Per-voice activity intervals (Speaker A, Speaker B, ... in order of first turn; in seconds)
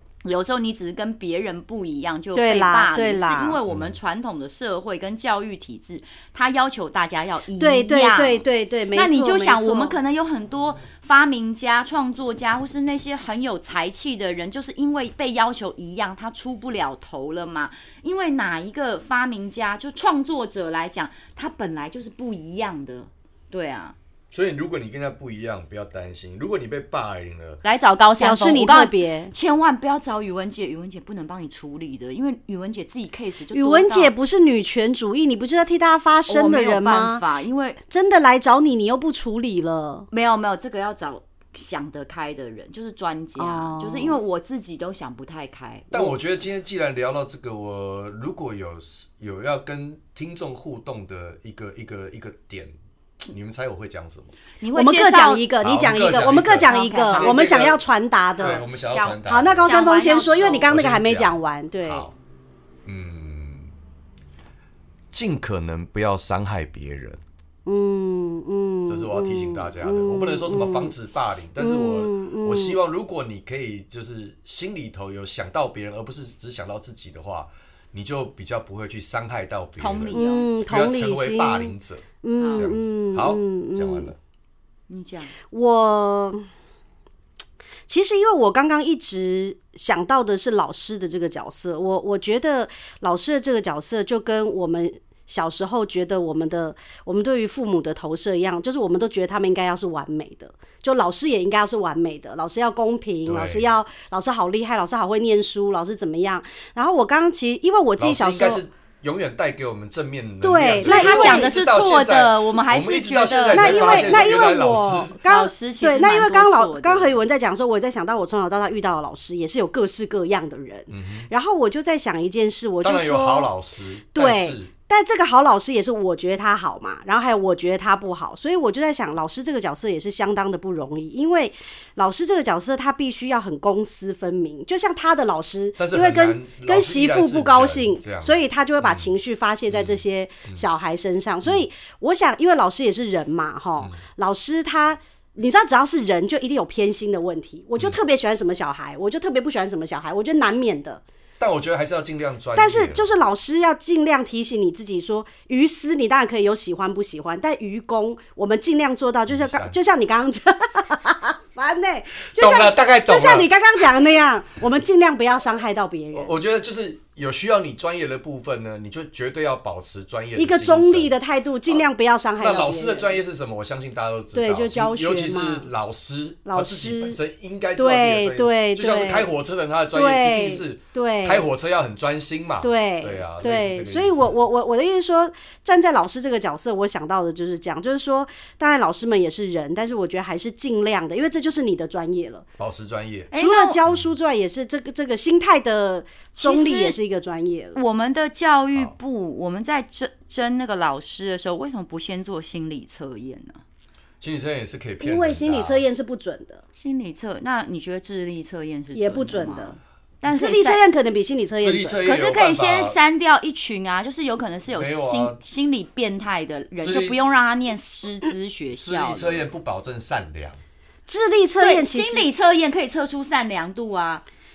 Speaker A: 0.2-23.9, 27.6-34.1, 36.3-37.8, 40.1-45.9, 54.6-55.5, 56.6-57.4, 58.9-60.7, 79.8-80.5, 82.4-82.7, 84.9-85.3, 110.8-114.4, 115.2-117.2, 193.3-193.8, 196.3-197.0, 197.7-203.6, 206.8-210.8, 212.0-219.5, 221.6-224.2
Speaker B: 2.3-3.6, 7.6-9.9, 28.2-29.3, 33.5-37.2, 37.9-40.1, 43.4-44.2, 54.7-58.7, 59.2-62.1, 67.7-70.9, 71.6-72.8, 80.1-84.1, 85.5-86.5, 87.9-108.6, 110.4-111.5, 113.5-123.5, 124.1-151.0, 152.6-166.3, 170.3-173.2, 174.3-175.7, 176.4-177.2, 177.8-179.3, 179.9-181.5, 182.6-192.4, 193.3-197.8, 205.0-206.6, 208.9-209.8, 210.3-212.0, 221.1-222.3
Speaker C: 3.7-4.0, 24.3-27.6, 45.9-54.3, 55.6-57.8, 58.4-59.8, 60.5-62.1, 62.9-63.7, 65.1-67.2, 68.9-84.2, 103.2-103.6, 108.0-115.2, 120.9-121.3, 122.8-124.7, 135.8-139.1, 139.7-140.6, 151.4-153.1, 159.3-159.7, 162.3-163.5, 166.1-171.1, 172.4-184.3, 192.6-193.3, 204.2-205.8, 211.6-212.9, 214.7-215.4, 216.8-217.2, 218.8-220.6